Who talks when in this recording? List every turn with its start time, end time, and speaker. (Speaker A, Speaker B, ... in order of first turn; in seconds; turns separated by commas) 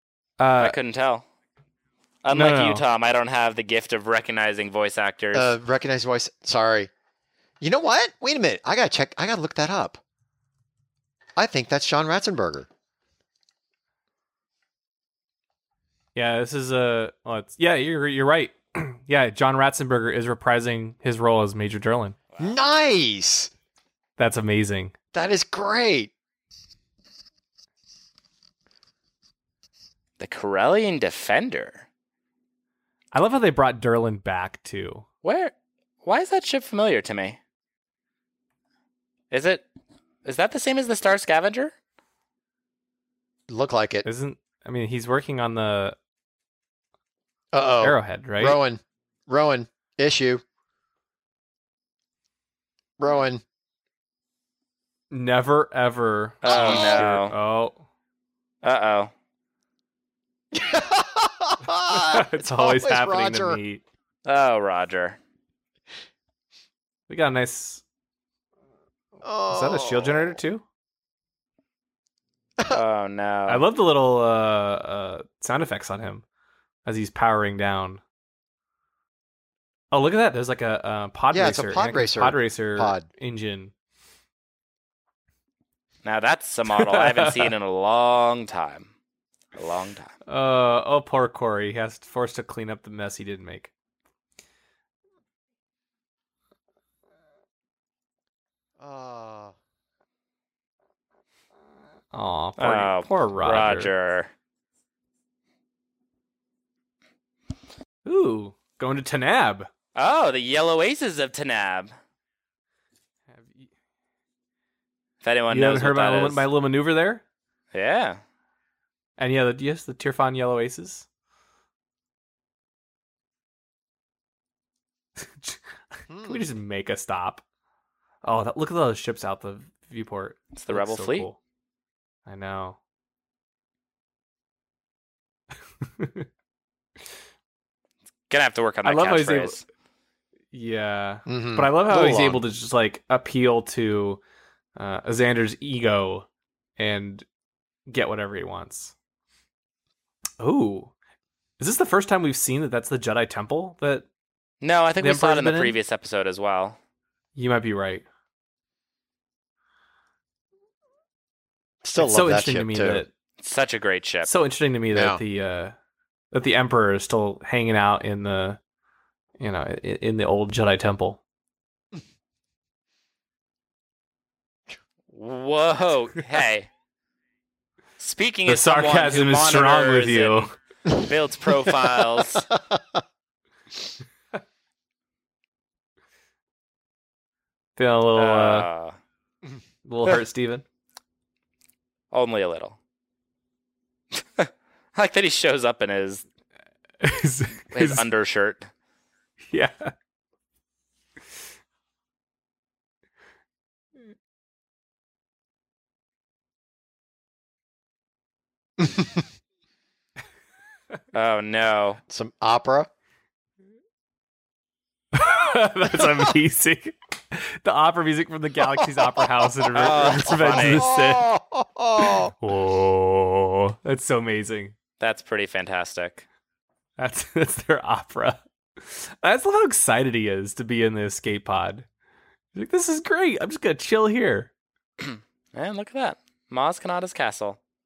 Speaker A: 0.4-0.8, Speaker B: 0.6-1.2, Speaker B: 2.2-5.5, Speaker A: 2.3-2.8, Speaker C: 5.3-6.9, Speaker C: 7.6-10.0, Speaker C: 11.3-12.7, Speaker A: 16.1-22.2, Speaker C: 22.4-23.5, Speaker A: 24.2-24.9, Speaker C: 25.1-26.1, Speaker B: 30.2-31.9, Speaker A: 33.1-35.0, Speaker B: 35.2-35.5, Speaker B: 36.0-37.4, Speaker B: 39.3-39.6, Speaker B: 40.2-41.7, Speaker C: 43.5-44.0, Speaker A: 44.0-46.0, Speaker C: 47.5-50.4, Speaker A: 47.8-48.6, Speaker C: 53.0-53.4, Speaker A: 55.1-57.8, Speaker B: 56.4-57.3, Speaker C: 56.4-57.1, Speaker B: 58.6-59.1, Speaker C: 60.5-63.6, Speaker A: 61.9-63.8, Speaker B: 64.2-65.2, Speaker A: 67.1-67.8, Speaker C: 69.2-70.4, Speaker A: 69.5-70.6, Speaker B: 72.7-73.7, Speaker A: 73.5-76.2, Speaker A: 76.8-78.0, Speaker A: 79.9-83.7, Speaker C: 81.3-83.1, Speaker B: 86.0-88.9, Speaker A: 86.7-87.5, Speaker B: 89.5-90.1, Speaker A: 90.3-93.7, Speaker C: 98.8-99.5, Speaker A: 102.1-103.9, Speaker B: 102.6-104.3, Speaker A: 108.0-109.7, Speaker B: 110.0-111.9, Speaker A: 113.3-113.7, Speaker B: 115.2-116.4, Speaker A: 115.5-117.2, Speaker B: 117.7-118.2, Speaker A: 119.2-121.0, Speaker A: 125.2-127.4, Speaker C: 126.1-126.4, Speaker A: 128.2-131.4, Speaker B: 130.6-131.3, Speaker A: 132.2-132.8, Speaker A: 135.8-136.3, Speaker B: 138.3-139.6, Speaker A: 138.8-139.6, Speaker A: 140.5-144.2, Speaker C: 141.2-142.4, Speaker A: 144.8-146.3, Speaker A: 146.8-147.2, Speaker A: 147.9-148.9, Speaker A: 150.4-150.9, Speaker A: 151.6-154.1, Speaker B: 154.6-156.8, Speaker A: 155.0-155.8, Speaker A: 157.3-158.1, Speaker C: 161.8-163.0, Speaker A: 161.9-163.1, Speaker B: 163.4-164.3, Speaker A: 164.2-165.7, Speaker C: 164.9-165.2, Speaker A: 166.3-168.6, Speaker A: 169.4-171.2, Speaker B: 175.1-176.7, Speaker B: 178.0-182.5, Speaker A: 178.4-180.5, Speaker C: 182.5-183.0, Speaker A: 187.8-188.7, Speaker B: 188.2-188.9, Speaker A: 189.8-190.6, Speaker B: 192.1-192.8, Speaker B: 194.2-196.2, Speaker A: 197.0-198.1, Speaker B: 197.7-198.7, Speaker A: 199.5-199.9, Speaker C: 208.8-209.2, Speaker B: 211.1-212.0, Speaker C: 212.1-212.9, Speaker A: 215.1-221.3, Speaker C: 218.8-219.8, Speaker B: 219.7-220.9, Speaker C: 220.4-222.3, Speaker A: 222.4-224.7, Speaker B: 225.0-226.2, Speaker A: 227.0-231.8, Speaker A: 232.5-234.5, Speaker B: 235.0-237.6